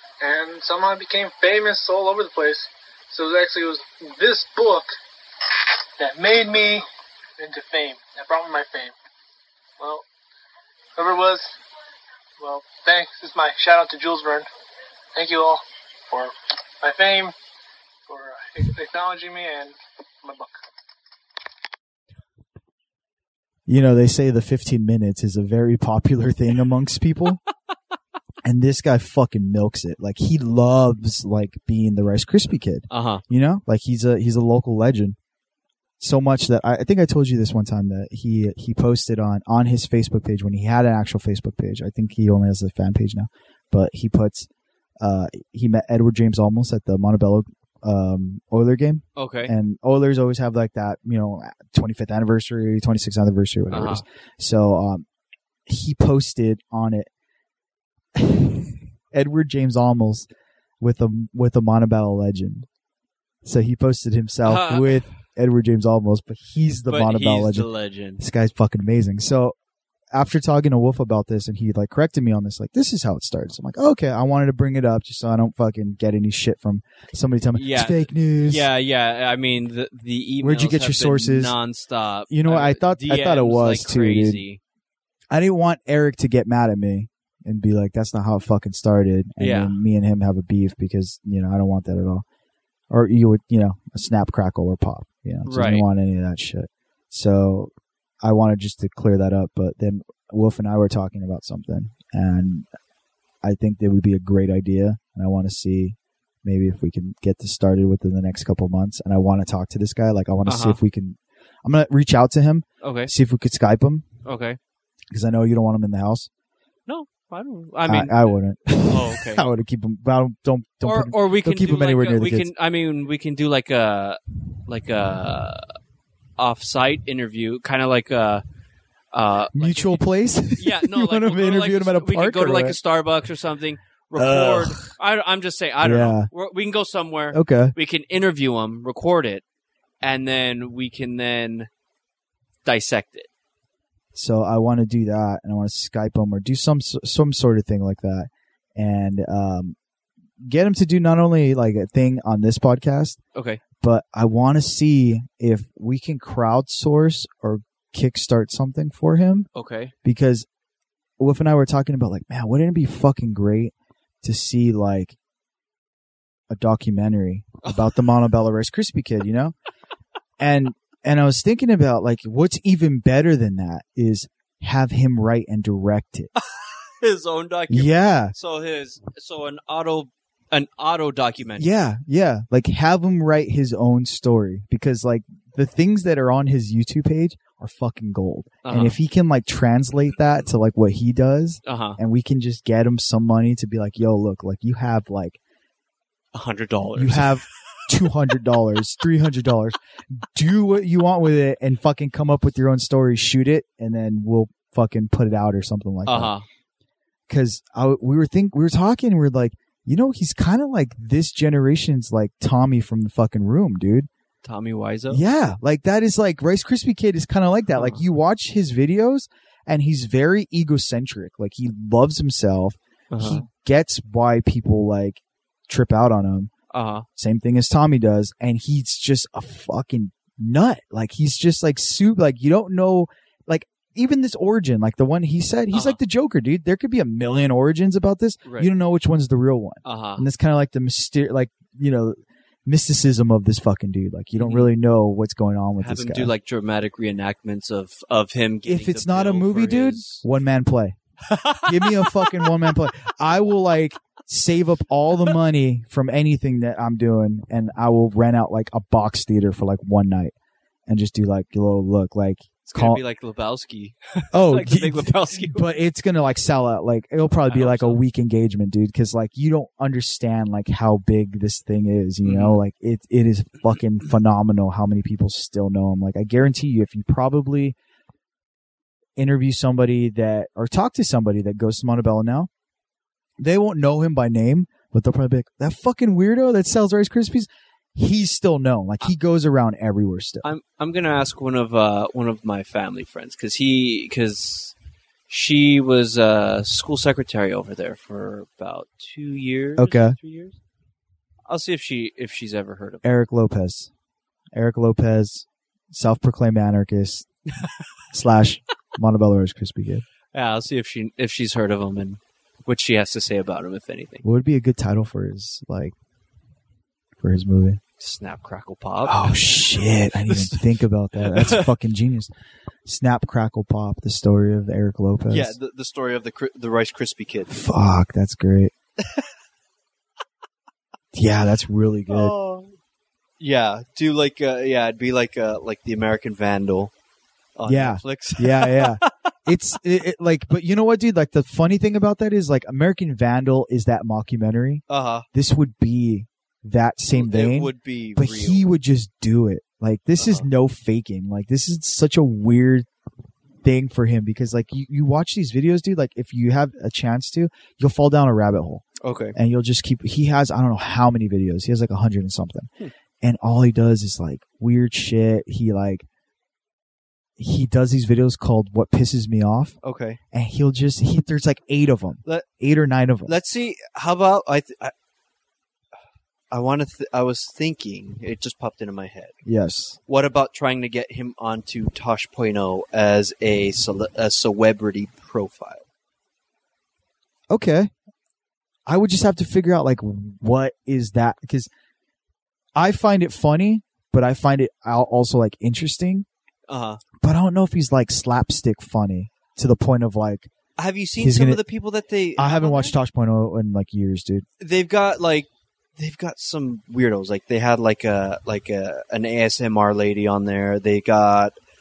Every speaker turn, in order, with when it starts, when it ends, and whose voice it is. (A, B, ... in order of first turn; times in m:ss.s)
0:00.2-0:05.0 A
0:06.0-0:06.8 A
0:07.4-0:08.9 A
0:09.8-0:10.0 A
0:11.0-0:11.5 A
0:12.4-0:14.5 A
0:15.1-0:17.3 A
0:18.1-0:20.6 A
0:23.7-0:27.4 B
0:28.4-0:35.2 B
0:32.9-0:33.2 C
0:36.0-0:44.5 B
0:45.0-0:55.0 B
0:49.2-0:49.5 C
0:53.7-0:54.0 C
0:55.7-0:57.1 B
0:58.2-1:00.3 B
1:00.8-1:02.7 B
1:03.4-1:09.6 B
1:04.4-1:05.1 C
1:06.9-1:08.2 C
1:10.1-1:18.7 B
1:17.5-1:24.6 C
1:20.4-1:21.6 B
1:22.3-1:24.4 B
1:25.3-1:32.2 B
1:29.4-1:29.8 C
1:32.9-1:37.7 B
1:35.4-1:35.8 C
1:38.2-1:42.7 B
1:43.4-1:54.0 B
1:50.4-1:50.8 C
1:52.8-1:53.1 C
1:54.2-1:54.6 C
1:55.1-1:56.3 B
1:56.9-1:59.4 C
1:57.9-2:02.5 B
2:00.8-2:05.6 C
2:06.4-2:08.4 C
2:09.1-2:19.4 C
2:09.5-2:12.8 B
2:14.1-2:14.9 B
2:15.8-2:16.3 B
2:17.3-2:17.7 B
2:20.0-2:21.7 C
2:22.6-2:23.3 C
2:24.1-2:29.8 B
2:30.4-2:33.2 B
2:33.3-2:33.6 C
2:33.8-2:39.5 B
2:39.5-2:39.9 C
2:40.0-2:40.4 B
2:41.2-2:45.2 B
2:46.5-2:49.5 B
2:47.6-2:47.9 C
2:50.4-2:56.3 B
2:56.4-3:01.7 C
2:57.7-2:58.3 B
3:01.6-3:15.4 B
3:08.6-3:09.0 C
3:11.6-3:12.0 C
3:16.3-3:17.4 C
3:16.9-3:26.3 B
3:26.0-3:26.4 C
3:27.3-3:34.1 B
3:34.4-3:35.2 C
3:35.1-3:46.5 B
3:37.7-3:38.0 C
3:43.1-3:43.4 C
3:46.7-3:47.0 C
3:47.2-4:06.3 B
3:55.7-3:56.0 C
3:58.4-3:58.7 C
3:59.8-4:00.3 C
4:04.4-4:04.7 C
4:05.8-4:10.2 C
4:08.6-4:11.0 B
4:11.2-4:12.6 C
4:11.6-4:20.3 B
4:20.9-4:23.0 B
4:22.7-4:25.6 C
4:24.3-4:37.8 B
4:27.5-4:28.0 C
4:32.2-4:32.6 C
4:39.2-4:42.5 B
4:43.4-4:50.4 B
4:50.4-4:54.7 C
4:55.3-5:00.6 C
4:59.8-5:00.2 B
5:01.5-5:03.0 C
5:03.0-5:03.9 B
5:04.5-5:07.3 B
5:08.1-5:10.0 B
5:10.3-5:14.2 C
5:14.2-5:15.9 B
5:17.2-5:17.8 B
5:18.0-5:21.7 C
5:19.0-5:22.3 B
5:22.8-5:25.6 B
5:25.3-5:27.5 C
5:27.5-5:28.7 B
5:31.1-5:32.3 B
5:32.1-5:32.7 C
5:33.4-5:36.9 C
5:37.6-5:39.1 C
5:37.6-5:52.9 B
5:44.9-5:45.3 C
5:47.1-5:48.7 C
5:50.2-5:50.5 C
5:53.6-6:02.7 B
5:59.0-5:59.4 C
6:03.2-6:06.0 B
6:07.4-6:09.8 B
6:09.8-6:10.2 C
6:10.3-6:13.3 B
6:13.2-6:14.9 C
6:16.5-6:19.3 C
6:19.4-6:20.0 B
6:20.0-6:25.8 C
6:27.5-6:27.9 B
6:28.8-6:31.7 B
6:32.8-6:36.2 B
6:36.7-6:37.0 C
6:37.2-6:40.5 B
6:40.8-6:43.0 C
6:41.2-6:41.6 B
6:42.4-6:44.4 B
6:44.6-6:51.5 C